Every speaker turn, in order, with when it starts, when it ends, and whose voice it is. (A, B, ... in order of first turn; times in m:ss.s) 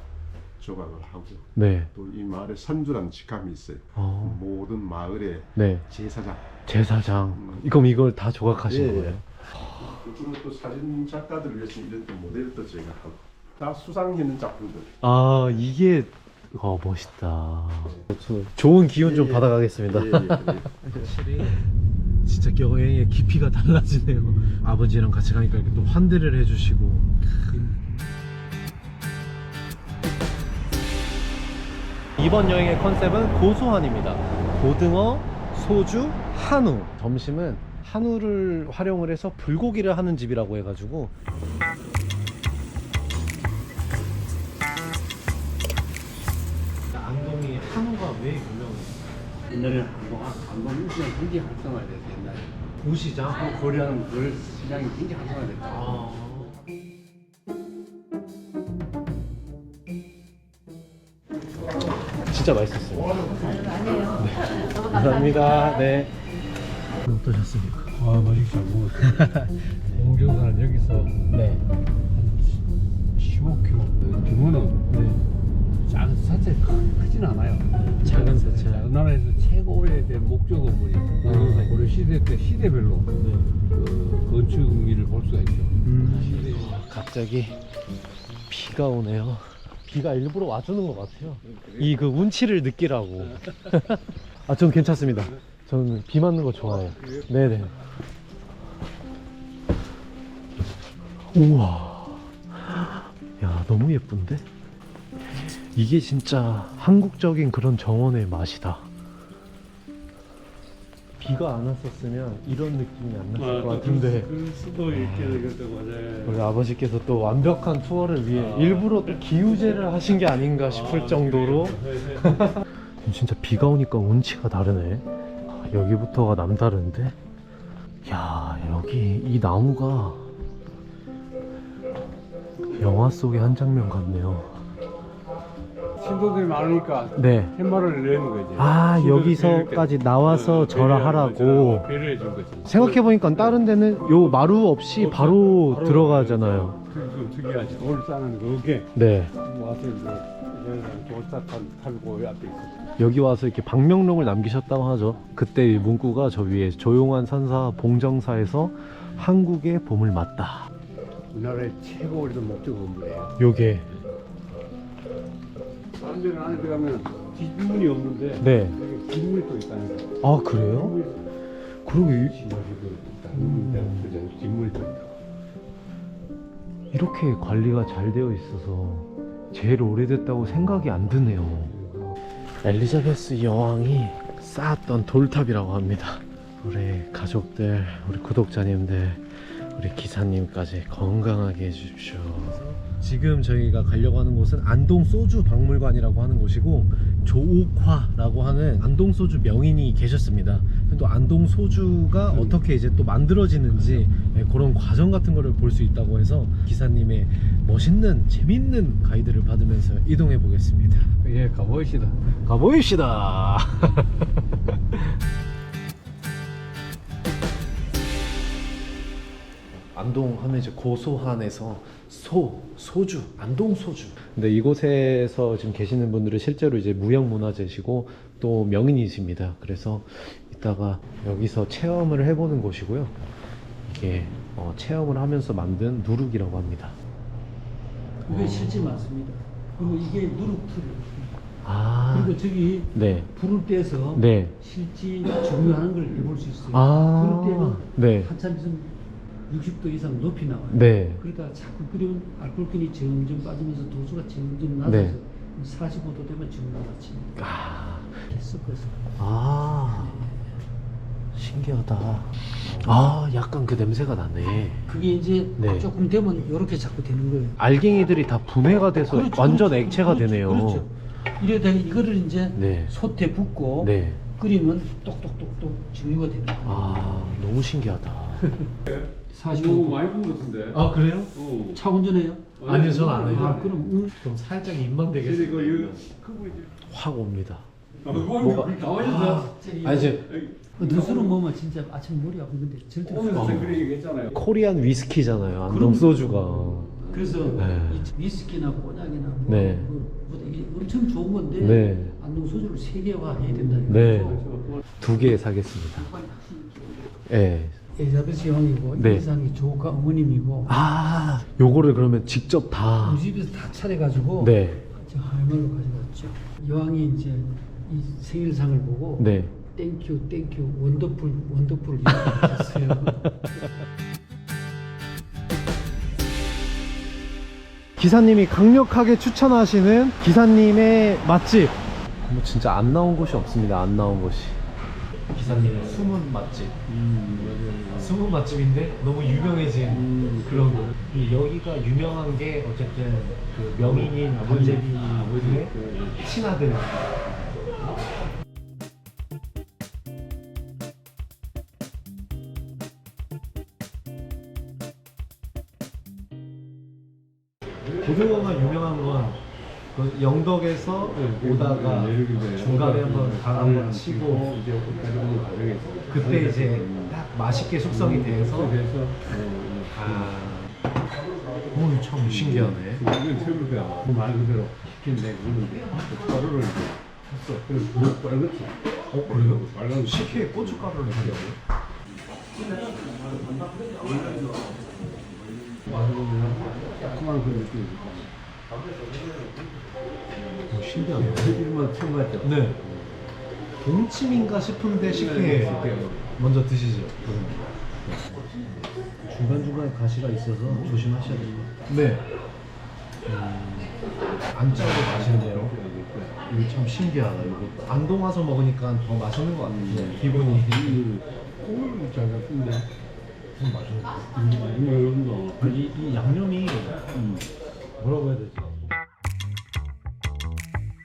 0:00.6-0:06.4 A
0:01.6-0:01.9 B
0:04.0-0:04.4 B
0:05.6-0:05.9 B
0:06.6-0:09.6 B
0:07.3-0:07.7 A
0:08.6-0:09.2 A
0:09.8-0:14.9 A
0:15.0-0:21.7 B
0:19.0-0:21.1 A
0:22.2-0:27.7 B
0:27.5-0:27.8 C
0:32.2-0:41.1 B
0:46.9-0:49.0 B
0:49.5-0:52.5 C
0:52.8-0:53.5 B
0:53.3-0:56.0 C
0:55.6-0:56.6 B
1:02.2-1:06.2 B
1:07.0-1:07.9 B
1:07.9-1:11.2 C
1:09.0-1:09.6 B
1:11.3-1:11.6 B
1:12.1-1:14.8 C
1:14.9-1:15.2 B
1:15.8-1:23.1 C
1:17.7-1:18.9 B
1:21.2-1:21.8 B
1:23.2-1:23.6 B
1:23.7-1:26.8 C
1:25.8-1:27.6 B
1:28.5-1:37.7 B
1:31.5-1:31.9 C
1:36.8-1:37.2 C
1:41.3-1:44.4 B
1:45.3-1:48.8 B
1:51.2-1:54.3 B
1:53.4-1:56.4 C
1:54.9-1:55.5 B
1:56.2-2:07.1 B
1:58.3-2:02.6 C
2:08.0-2:10.3 B
2:12.7-2:14.6 B
2:16.0-2:32.9 C
2:17.2-2:17.5 B
2:18.6-2:21.9 B
2:22.6-2:26.8 B
2:28.9-2:29.3 B
2:33.0-2:40.7 B
2:41.3-2:43.4 C
2:43.4-2:43.9 B
2:46.0-2:51.2 C
2:48.4-2:48.8 B
2:50.2-2:51.0 B
2:51.8-2:52.4 B
2:52.2-2:55.1 C
2:53.3-2:54.1 B
2:56.9-3:01.7 B
3:01.1-3:02.1 C
3:02.6-3:31.1 B
3:22.3-3:22.6 C
3:23.7-3:24.0 C
3:31.2-3:32.2 C
3:32.4-3:35.2 B
3:39.8-3:53.1 B
3:53.8-3:57.0 B
3:58.2-4:01.4 D
3:58.3-3:59.0 B
3:59.8-4:00.1 B
4:01.6-4:03.3 B
4:02.1-4:08.9 D
4:04.1-4:04.6 B
4:06.7-4:08.3 B
4:09.5-4:17.3 D
4:10.7-4:11.2 B
4:14.8-4:15.2 B
4:17.4-4:18.2 B
4:18.2-4:19.0 D
4:19.2-4:20.3 B
4:21.3-4:25.0 B
4:24.9-4:27.6 D
4:25.6-4:25.9 B
4:27.6-4:30.9 B
4:29.0-4:37.2 D
4:32.5-4:32.9 B
4:33.8-4:34.2 B
4:36.6-4:38.6 B
4:38.9-4:41.8 C
4:39.3-4:40.0 D
4:40.7-4:41.3 B
4:41.7-4:42.5 D
4:42.6-4:43.7 C
4:42.6-4:46.1 B
4:43.2-4:44.2 D
4:45.2-4:46.8 C
4:46.8-4:50.3 B
4:48.0-4:49.6 C
4:49.2-4:50.2 D
4:50.2-4:51.4 C
4:50.8-4:53.8 D
4:53.0-4:54.4 C
4:53.3-4:53.7 B
4:54.3-4:57.0 B
4:55.7-5:04.5 D
4:56.7-4:57.4 C
4:57.5-4:58.1 B
4:59.5-4:59.9 B
5:01.6-5:02.2 B
5:03.6-5:04.8 C
5:03.9-5:04.5 B
5:05.0-5:06.1 B
5:06.1-5:06.9 D
5:07.3-5:07.8 B
5:07.9-5:10.8 D
5:09.0-5:09.3 B
5:10.7-5:13.2 B
5:13.0-5:23.4 D
5:14.4-5:14.9 B
5:19.2-5:19.6 B
5:22.2-5:23.1 B
5:28.0-5:34.6 B
5:35.3-5:36.7 B
5:35.4-5:36.1 C
5:36.9-5:38.2 C
5:37.9-5:47.3 B
5:39.9-5:41.0 C
5:43.7-5:46.3 C
5:58.0-5:59.4 B
5:59.9-6:04.6 B
6:01.1-6:07.2 C
6:06.1-6:08.8 B
6:07.9-6:10.4 C
6:09.9-6:10.7 B
6:11.7-6:13.0 B
6:12.2-6:17.0 C
6:17.3-6:17.6 B
6:17.6-6:21.5 C
6:19.1-6:21.6 B
6:22.6-6:28.3 C
6:30.7-6:31.6 B
6:31.1-6:33.3 C
6:32.4-6:32.8 B
6:33.8-6:38.2 B
6:35.0-6:36.3 C
6:39.2-6:42.3 B
6:40.6-6:41.8 C
6:43.2-6:44.1 C
6:44.5-6:45.8 B
6:44.7-6:46.5 C
6:46.4-6:51.0 B
6:47.5-6:47.8 C
6:49.6-6:52.9 C
6:53.5-6:54.2 B
6:54.3-6:55.8 C
6:55.6-6:57.1 B
6:57.1-6:57.4 C
6:58.0-6:58.8 B